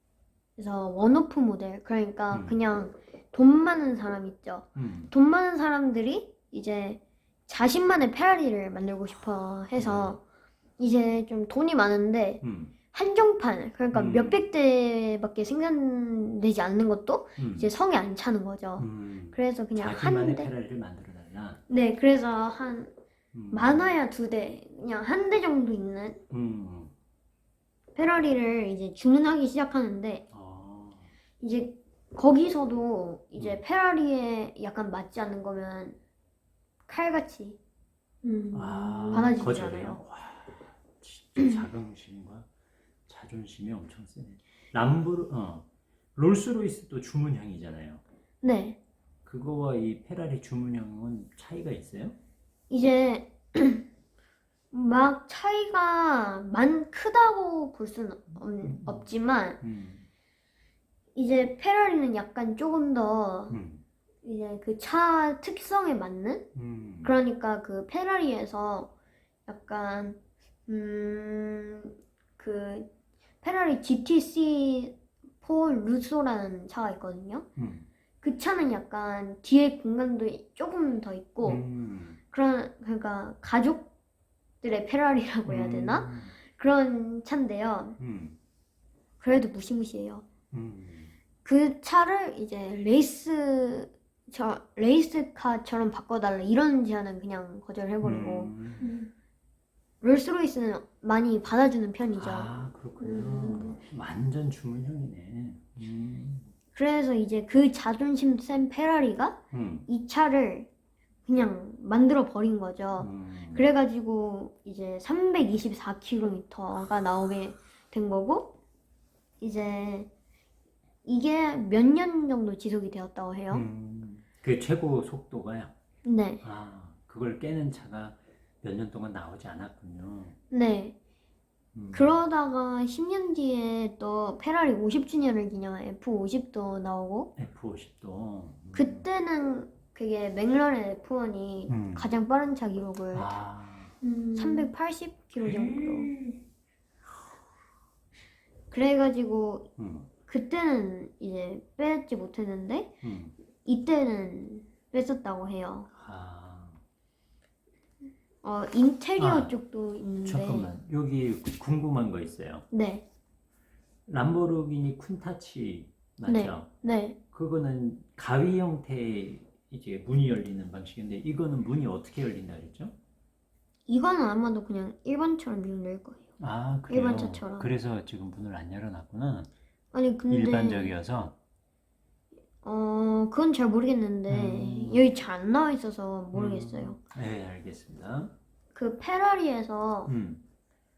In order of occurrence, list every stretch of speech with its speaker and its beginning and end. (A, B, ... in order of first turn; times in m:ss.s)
0:00.6-0:10.2 A
0:02.3-0:02.6 B
0:04.8-0:05.1 B
0:09.8-0:10.2 B
0:10.8-0:20.5 A
0:12.4-0:12.7 B
0:13.9-0:14.4 B
0:17.4-0:17.7 B
0:18.8-0:21.6 B
0:21.7-0:22.9 A
0:23.3-0:24.0 B
0:23.5-0:26.2 A
0:26.3-0:26.9 B
0:27.9-0:30.2 A
0:30.3-0:31.1 B
0:31.4-0:36.0 A
0:36.9-0:37.6 A
0:38.2-0:39.3 C
0:38.5-0:42.5 B
0:39.1-0:40.0 A
0:43.1-0:48.0 B
0:48.4-0:48.8 A
0:49.2-0:52.2 B
0:52.7-0:53.8 A
0:54.7-0:59.6 A
0:58.6-1:00.1 B
1:01.1-1:03.6 A
1:03.5-1:03.8 B
1:04.2-1:06.5 A
1:06.5-1:07.1 B
1:07.0-1:08.9 A
1:09.5-1:12.9 A
1:13.4-1:17.5 A
1:17.6-1:17.8 B
1:18.2-1:21.6 A
1:21.4-1:22.2 B
1:22.3-1:23.9 A
1:24.6-1:28.0 A
1:25.5-1:26.3 B
1:28.0-1:28.4 B
1:29.2-1:30.2 A
1:30.5-1:31.1 B
1:31.4-1:38.5 A
1:38.0-1:38.9 B
1:38.8-1:39.1 C
1:40.0-1:42.5 A
1:42.2-1:46.5 B
1:43.0-1:43.8 C
1:46.7-1:50.7 A
1:49.5-1:49.9 B
1:51.2-1:58.6 A
1:53.0-1:53.7 B
1:59.4-2:00.1 A
2:01.0-2:03.6 A
2:03.5-2:05.7 B
2:06.0-2:06.4 A
2:06.4-2:10.4 B
2:10.5-2:10.9 A
2:11.7-2:12.2 B
2:11.9-2:17.3 A
2:17.4-2:19.0 B
2:18.7-2:23.3 A
2:21.7-2:22.1 B
2:23.1-2:24.0 B
2:24.0-2:24.7 C
2:24.3-2:26.1 A
2:25.4-2:26.4 B
2:28.7-2:29.7 A
2:29.8-2:30.1 B
2:30.3-2:33.0 A
2:33.0-2:33.4 B
2:33.6-2:35.9 A
2:35.9-2:36.8 B
2:38.4-2:40.7 A
2:39.2-2:39.5 B
2:40.2-2:42.7 B
2:42.7-2:43.0 A
2:44.1-2:46.7 B
2:46.2-2:47.2 A
2:47.3-2:52.9 B
2:53.9-2:56.3 A
2:56.4-2:59.5 B
2:56.9-2:57.7 A
2:59.9-3:00.9 A
3:00.3-3:01.4 B
3:02.6-3:07.0 A
3:04.3-3:05.1 B
3:06.3-3:08.3 B
3:08.7-3:10.1 A
3:10.0-3:10.4 B